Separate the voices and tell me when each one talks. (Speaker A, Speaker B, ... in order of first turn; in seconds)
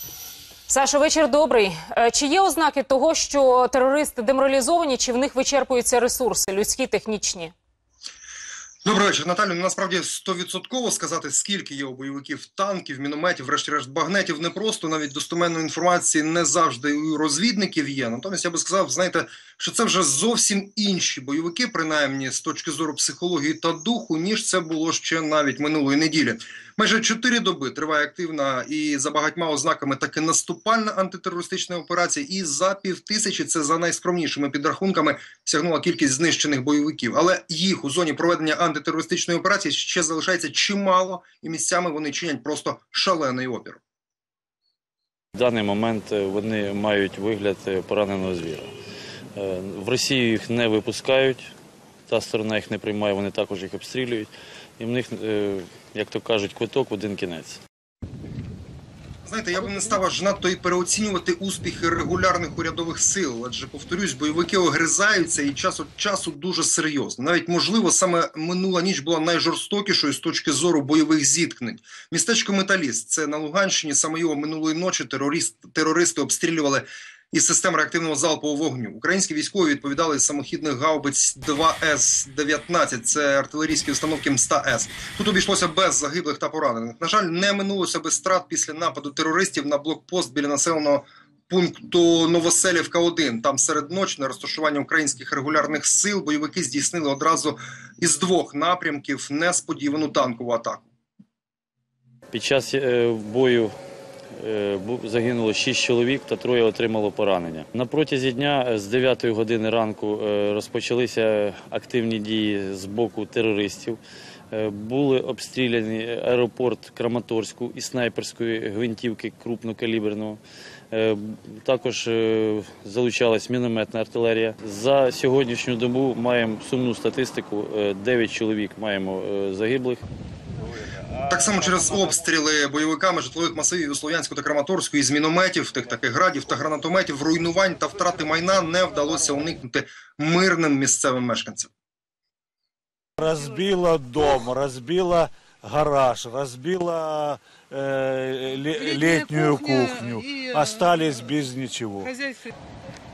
Speaker A: 0.7-7.5
Speaker B: 8.8-43.8, 59.2-100.9, 131.3-141.7
Speaker C: 45.4-48.7, 49.4-51.5, 52.1-57.6, 102.3-103.7, 104.4-114.0, 114.5-120.4, 120.9-130.0
Speaker D: 143.2-152.1